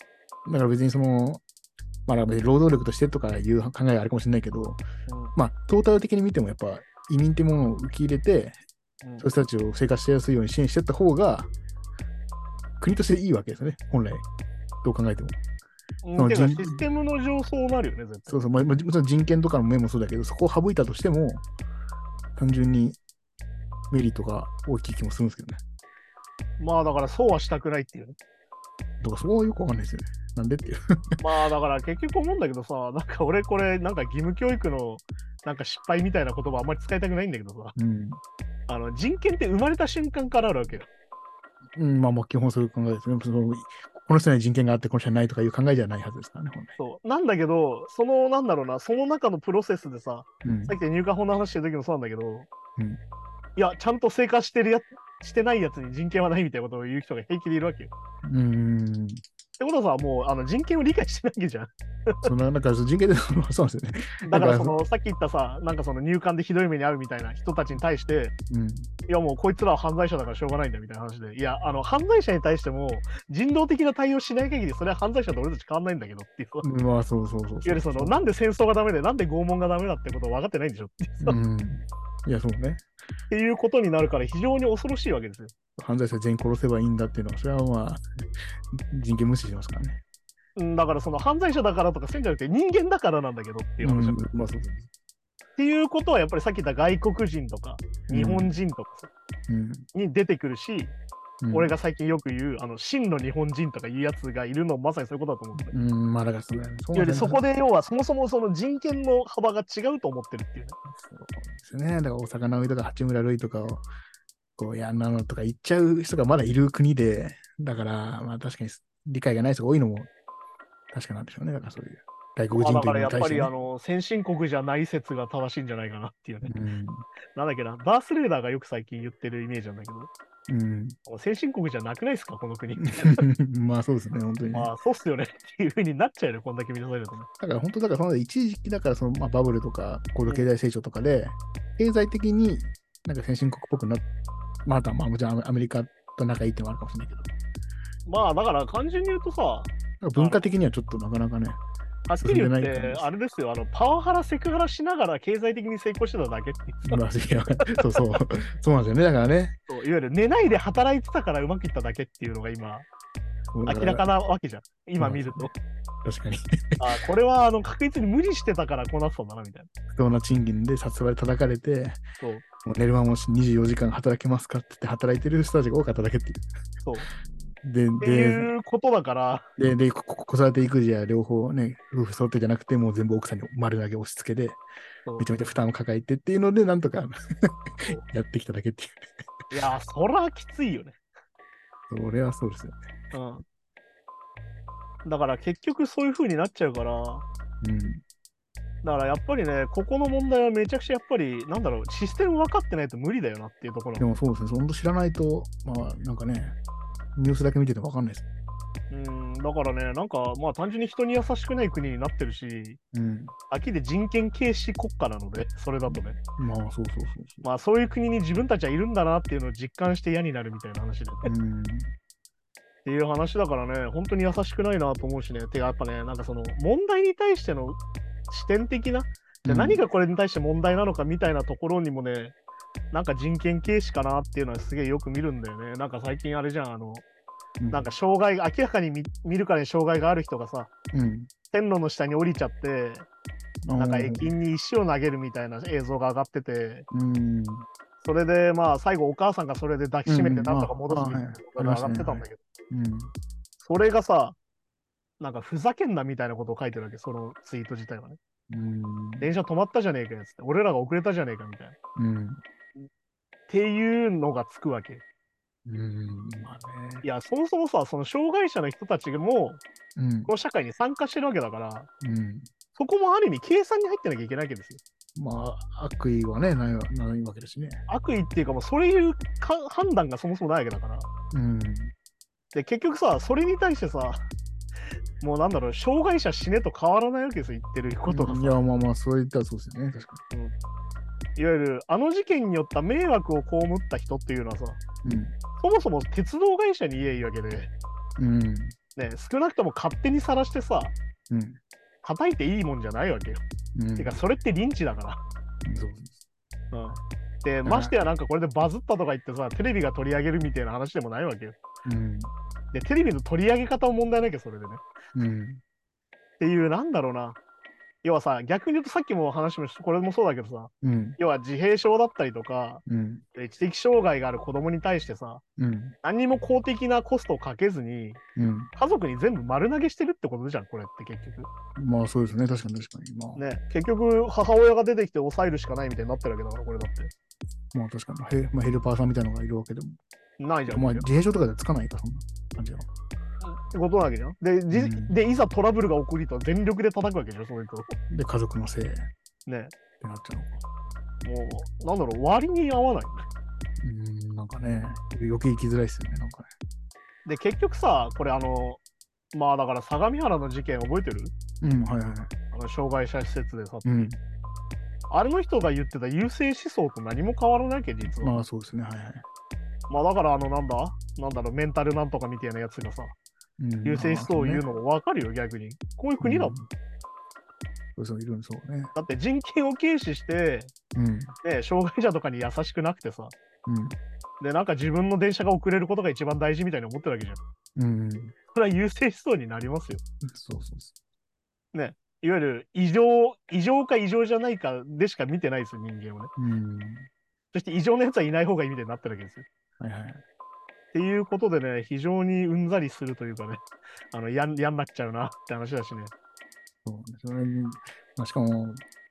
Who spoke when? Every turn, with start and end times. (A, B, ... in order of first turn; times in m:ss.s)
0:00.4-0:01.4 A
0:02.1-0:04.8 A
0:05.1-0:05.3 B
0:05.4-0:08.6 A
0:09.2-0:11.5 A
0:12.8-0:14.3 A
0:14.8-0:15.4 A
0:16.0-0:18.4 B
0:16.2-0:16.8 A
0:18.3-0:21.4 A
0:22.4-0:23.0 A
0:23.9-0:25.6 A
0:26.6-0:28.2 B
0:29.0-0:31.2 A
0:31.2-0:37.8 B
0:37.8-0:38.2 A
0:38.7-0:40.9 B
0:41.8-0:46.8 A
0:46.8-0:52.5 B
0:50.4-0:50.8 A
0:53.6-0:57.9 B
0:58.2-0:59.2 A
0:59.6-1:02.3 B
1:02.2-1:04.8 A
1:04.3-1:08.3 B
1:08.5-1:08.9 A
1:09.1-1:16.7 B
1:16.6-1:18.2 A
1:17.6-1:21.4 B
1:21.2-1:22.8 A
1:23.3-1:25.5 B
1:25.8-1:28.0 A
1:28.7-1:30.0 A
1:30.6-1:34.3 B
1:33.8-1:34.9 A
1:35.6-1:39.1 B
1:38.1-1:38.5 A
1:39.5-1:39.9 A
1:39.9-1:40.9 B
1:41.4-1:41.8 A
1:41.5-1:45.8 B
1:45.6-1:47.4 A
1:46.9-1:50.8 B
1:50.9-1:53.8 A
1:54.6-2:00.1 A
2:00.9-2:03.5 A
2:02.5-2:06.5 B
2:06.4-2:07.1 A
2:07.4-2:10.1 B
2:10.5-2:11.0 A
2:11.1-2:13.2 B
2:12.8-2:14.7 A
2:14.5-2:17.3 B
2:17.4-2:24.0 A
2:24.6-2:27.3 A
2:28.1-2:30.5 B
2:30.0-2:31.6 A
2:32.1-2:37.0 B
2:32.2-2:33.1 A
2:36.9-2:39.6 A
2:39.7-2:42.9 B
2:43.5-2:44.1 A
2:43.7-2:45.5 B
2:45.0-2:45.5 A
2:46.0-2:46.8 A
2:46.8-2:49.7 B
2:49.9-2:52.0 A
2:52.6-2:56.5 A
2:57.6-2:58.5 A
2:58.0-2:59.5 B
2:59.6-3:04.6 A
3:05.2-3:09.1 A
3:09.5-3:11.0 B
3:11.9-3:12.8 A
3:13.1-3:13.4 B
3:15.0-3:17.2 B
3:17.6-3:18.0 A
3:18.8-3:24.1 B
3:24.0-3:26.6 A
3:27.2-3:28.3 A
3:28.9-3:32.8 B
3:32.9-3:33.3 A
3:33.5-3:36.2 B
3:35.9-3:37.4 A
3:37.4-3:41.3 B
3:41.2-3:41.9 A
3:42.8-3:47.8 B
3:48.3-3:52.4 B
3:49.4-3:49.8 A
3:52.9-3:57.0 B
3:57.6-3:57.9 A
3:57.7-4:00.7 B
4:00.9-4:01.3 A
4:01.5-4:03.1 B
4:03.6-4:04.3 A
4:03.8-4:06.9 B
4:06.9-4:07.7 A
4:08.0-4:12.4 B
4:10.1-4:13.1 A
4:13.6-4:14.4 B
4:15.2-4:18.2 B
4:18.5-4:19.3 A
4:19.2-4:21.8 B
4:22.0-4:22.4 A
4:23.5-4:25.0 B
4:25.7-4:27.0 A
4:27.0-4:29.6 B
4:30.0-4:30.3 A
4:30.3-4:31.9 B
4:32.0-4:32.5 A
4:32.8-4:34.8 B
4:35.2-4:37.8 A
4:37.9-4:41.1 B
4:41.3-4:41.9 A
4:42.5-4:44.2 B
4:45.2-4:48.6 B
4:48.1-4:50.2 A
4:51.4-4:54.8 B
4:55.0-4:55.3 A
4:55.6-4:57.7 B
4:58.2-4:58.8 A
4:59.0-5:01.0 B
5:01.3-5:01.6 A
5:02.0-5:03.4 B
5:03.8-5:04.2 A
5:04.0-5:05.2 B
5:05.6-5:06.2 A
5:06.7-5:11.6 B
5:07.6-5:07.9 A
5:11.8-5:12.3 A
5:12.7-5:14.8 B
5:15.2-5:15.6 A
5:16.4-5:17.4 B
5:18.0-5:22.8 B
5:20.8-5:21.2 A
5:22.9-5:23.2 A
5:23.3-5:25.4 B
5:25.6-5:26.0 A
5:26.0-5:28.2 B
5:28.4-5:28.7 A
5:28.8-5:31.5 B
5:31.8-5:33.4 A
5:33.4-5:37.1 B
5:37.7-5:40.0 A
5:40.4-5:41.1 B
5:40.7-5:42.9 A
5:43.4-5:48.0 B
5:44.7-5:45.1 A
5:48.1-5:49.1 A
5:49.5-5:49.7 B
5:50.0-5:50.6 A
5:51.2-5:53.3 B
5:53.8-5:56.5 A
5:57.2-5:58.8 B
5:59.3-6:01.3 B
6:01.6-6:02.3 A
6:02.5-6:04.1 B
6:03.8-6:04.2 A
6:05.1-6:08.4 B
6:08.2-6:09.2 A
6:09.9-6:13.2 B
6:13.6-6:14.6 A
6:13.8-6:16.6 B
6:16.2-6:16.7 A
6:18.0-6:18.9 A
6:19.0-6:20.7 B
6:21.0-6:21.4 A
6:21.4-6:23.3 B
6:23.7-6:24.0 A
6:24.4-6:27.4 B
6:27.8-6:28.4 A
6:28.5-6:30.0 B
6:30.2-6:30.9 A
6:31.7-6:36.3 B
6:36.4-6:37.1 A
6:37.5-6:39.5 B
6:39.8-6:40.2 A
6:40.9-6:46.1 B
6:46.8-6:48.8 A